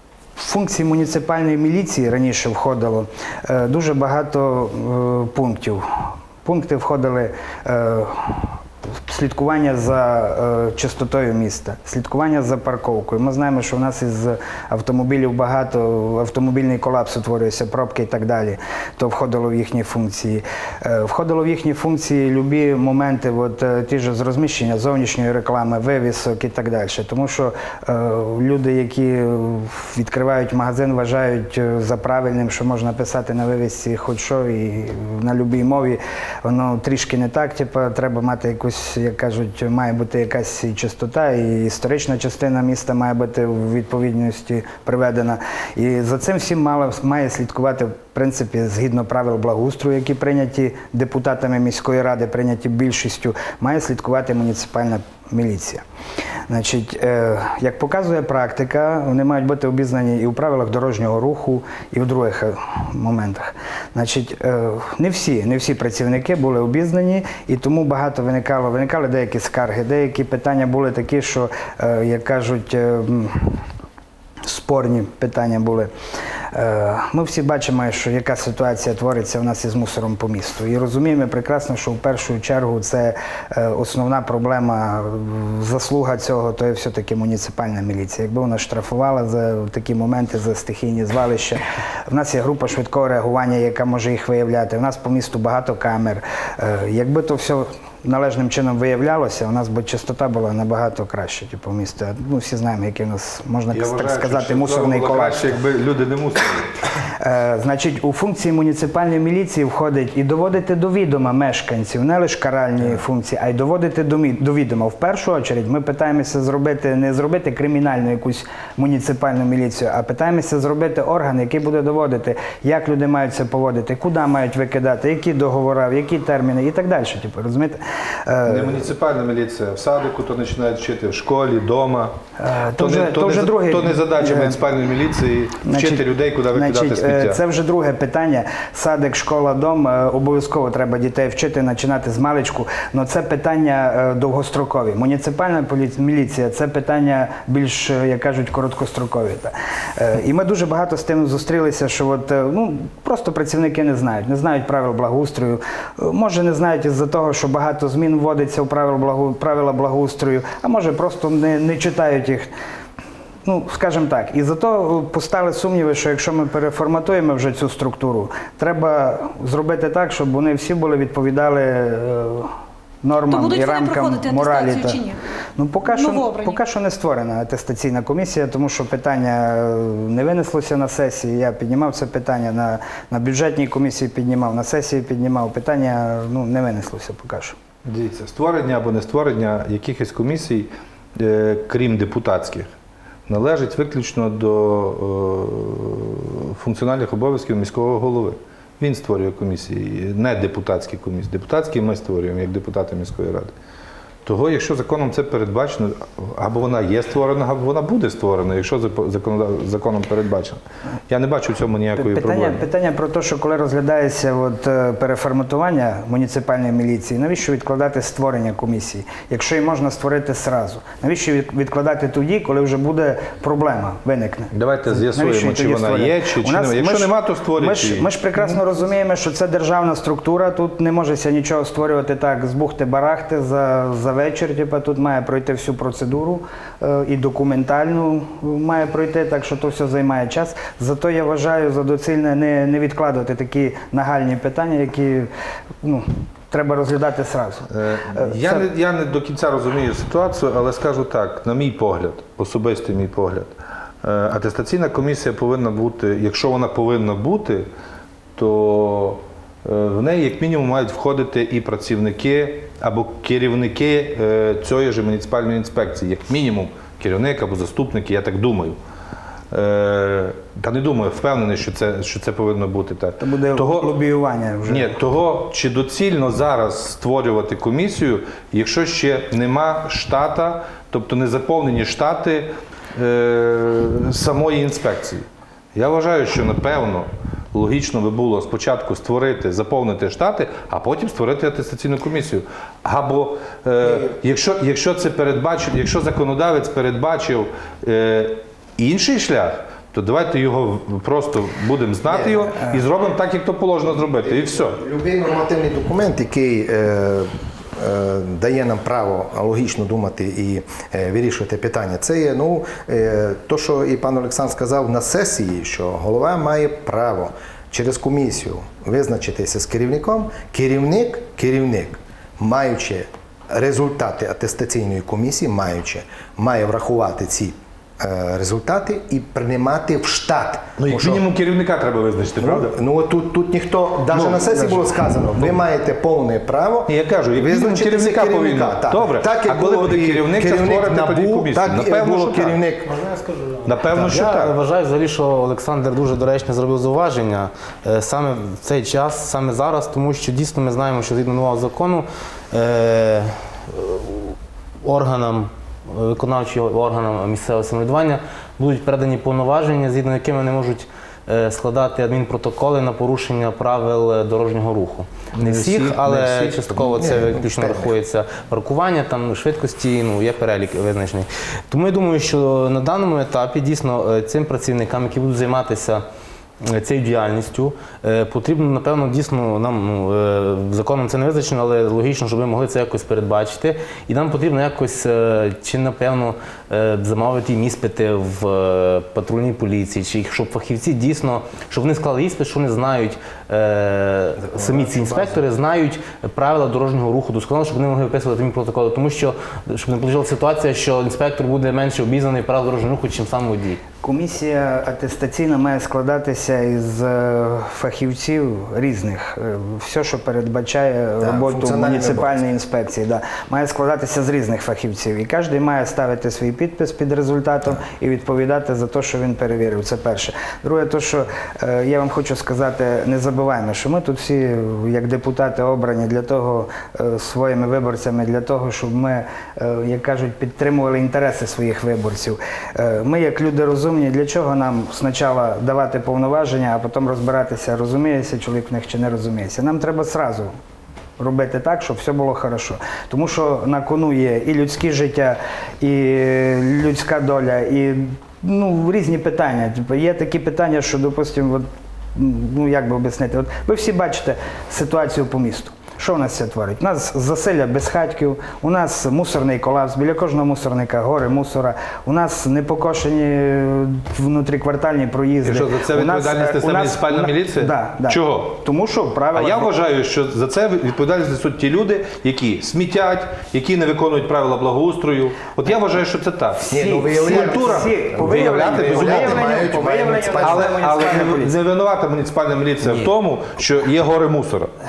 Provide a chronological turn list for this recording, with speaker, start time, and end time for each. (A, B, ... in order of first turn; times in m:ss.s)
0:00.4-0:55.8 A
0:56.5-1:13.6 A
1:14.5-1:15.9 A
1:16.5-1:45.6 A
1:43.7-1:46.9 B
1:47.2-2:08.9 A
2:08.5-2:12.2 B
2:12.4-2:14.8 A
2:12.8-2:17.4 B
2:15.6-2:42.5 A
2:43.4-2:55.0 A
2:53.3-2:55.2 C
2:55.6-3:07.6 A
2:55.8-2:56.6 C
3:07.8-3:12.7 B
3:13.3-3:23.5 B
3:24.2-3:32.6 B
3:32.0-4:05.3 A
3:44.5-3:48.6 B
4:05.8-4:08.7 A
4:07.7-4:17.7 B
4:18.4-4:28.8 B
4:29.5-4:33.9 B
4:33.2-4:35.0 A
4:34.7-5:04.8 B
5:02.1-5:02.8 D
5:04.2-5:31.3 D
5:30.8-5:32.7 B
5:32.4-5:42.9 D
5:34.1-5:35.6 B
5:36.9-5:42.6 B
5:42.8-6:16.0 E
5:43.7-5:44.6 B
5:43.9-5:44.4 D
6:05.4-6:06.7 B
6:06.7-6:08.0 D
6:16.6-6:43.8 E
6:34.4-6:35.4 D
6:44.0-7:20.5 A
6:51.2-6:52.4 D
7:21.2-7:49.7 A
7:45.4-7:48.6 B
7:49.3-7:59.7 B
7:56.7-8:01.2 D
7:56.7-8:01.6 A
8:00.4-8:04.7 B